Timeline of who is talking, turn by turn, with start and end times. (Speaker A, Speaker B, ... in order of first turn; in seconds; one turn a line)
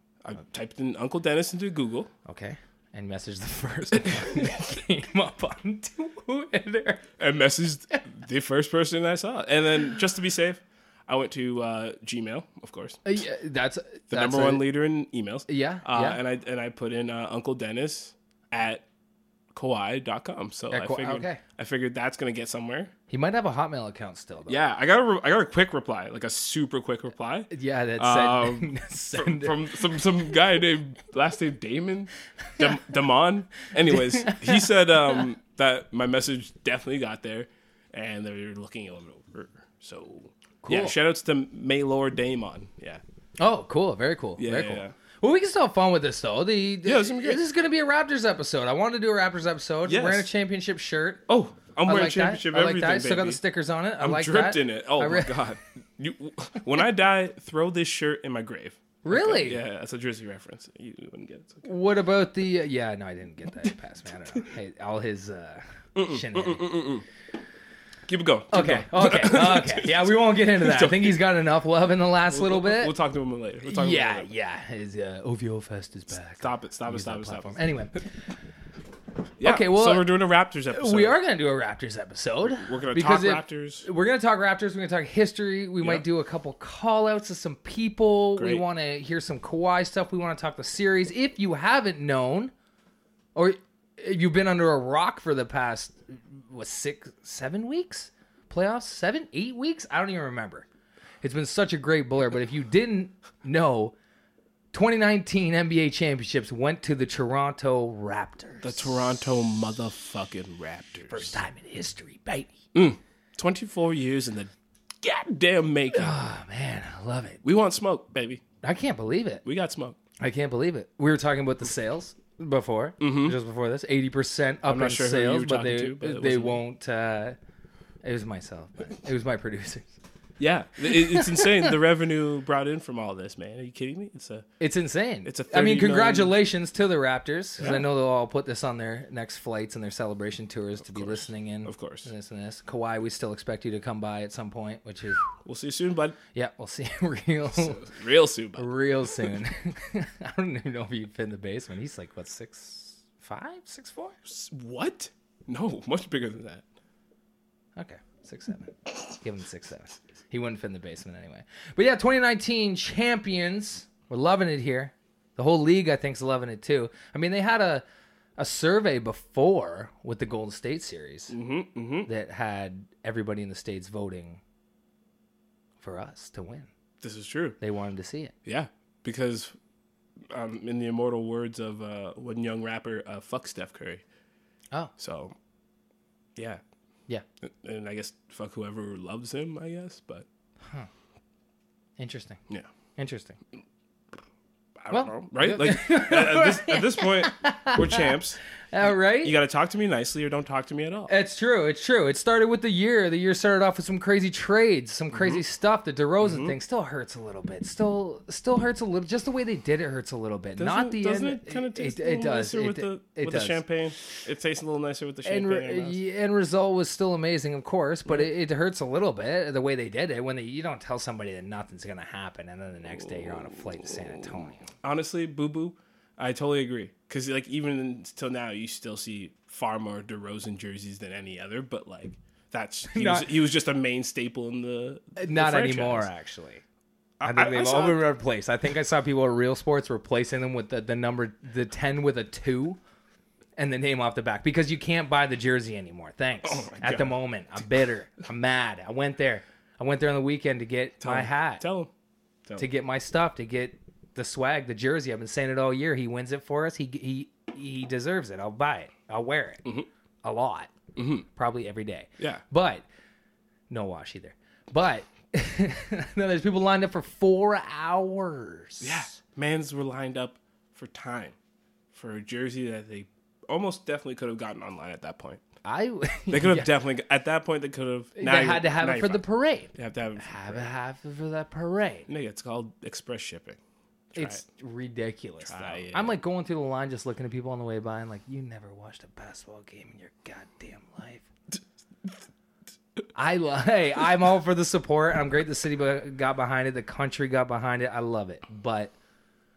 Speaker A: 0.2-2.1
Speaker B: 2.2-7.0
Speaker A: 4.0-4.5
Speaker A: 7.2-13.0
Speaker B: 13.0-14.6
Speaker A: 14.1-18.8
Speaker B: 15.5-16.2
Speaker A: 19.5-22.9
Speaker B: 20.7-21.4
Speaker B: 23.1-24.6
Speaker A: 24.5-43.0
Speaker B: 27.5-29.6
Speaker B: 33.9-34.6
Speaker B: 40.6-40.9
Speaker B: 43.4-51.2
Speaker A: 44.4-44.9
Speaker A: 46.8-47.4
Speaker A: 49.9-50.3
Speaker A: 51.3-53.4
Speaker B: 51.9-55.4
Speaker A: 54.0-61.7
Speaker B: 59.0-59.6
Speaker B: 61.6-66.6
Speaker A: 65.9-67.0
Speaker A: 68.1-71.2
Speaker B: 68.5-72.9
Speaker A: 72.3-74.3
Speaker B: 73.7-78.0
Speaker A: 76.4-77.6
Speaker A: 79.4-81.2
Speaker B: 79.4-80.1
Speaker B: 80.7-92.5
Speaker A: 82.6-83.8
Speaker A: 88.4-88.6
Speaker B: 93.3-100.7
Speaker B: 101.2-103.9
Speaker B: 104.7-109.0
Speaker A: 108.6-111.4
Speaker B: 111.1-112.5
Speaker A: 112.7-114.5
Speaker A: 115.0-116.2
Speaker B: 115.9-117.4
Speaker A: 117.4-118.4
Speaker B: 118.6-119.4
Speaker A: 119.4-120.0
Speaker B: 120.2-127.4
Speaker A: 123.0-123.4
Speaker A: 124.7-126.6
Speaker B: 128.0-129.9
Speaker A: 130.4-134.4
Speaker B: 130.9-131.7
Speaker B: 134.6-145.2
Speaker A: 135.2-136.4
Speaker A: 137.6-137.9
Speaker A: 140.8-142.1
Speaker A: 145.4-146.2
Speaker B: 146.3-147.8
Speaker A: 147.5-149.3
Speaker B: 148.6-154.1
Speaker A: 154.3-156.6
Speaker B: 157.8-167.8
Speaker B: 168.4-171.3
Speaker A: 171.3-172.1
Speaker B: 172.1-174.4
Speaker B: 175.8-176.7
Speaker A: 177.0-177.6
Speaker B: 177.6-178.3
Speaker A: 178.4-179.5
Speaker A: 180.3-184.0
Speaker A: 185.0-185.3
Speaker A: 186.3-186.6
Speaker A: 187.4-190.2
Speaker B: 192.0-192.4
Speaker B: 193.0-193.4
Speaker A: 194.8-198.4
Speaker B: 194.9-198.1
Speaker B: 198.7-199.3
Speaker A: 199.1-201.1
Speaker B: 201.1-213.6
Speaker A: 205.1-205.4
Speaker A: 206.2-206.5
Speaker A: 210.6-216.0
Speaker B: 215.2-224.7
Speaker A: 223.2-236.1
Speaker B: 232.9-233.4
Speaker B: 235.2-236.6
Speaker A: 237.2-238.1
Speaker B: 237.2-242.8
Speaker B: 243.6-251.6
Speaker A: 246.4-247.7
Speaker A: 251.0-251.9
Speaker B: 252.6-259.6
Speaker B: 260.2-260.7
Speaker A: 260.9-261.3
Speaker B: 261.4-262.8
Speaker B: 263.7-269.2
Speaker A: 268.8-271.3
Speaker A: 271.9-275.4
Speaker B: 275.6-276.7
Speaker A: 276.3-279.2
Speaker B: 278.2-282.1
Speaker A: 279.7-280.7
Speaker A: 282.1-283.6
Speaker A: 284.1-284.4
Speaker B: 284.1-291.3
Speaker A: 285.4-286.1
Speaker B: 293.1-298.9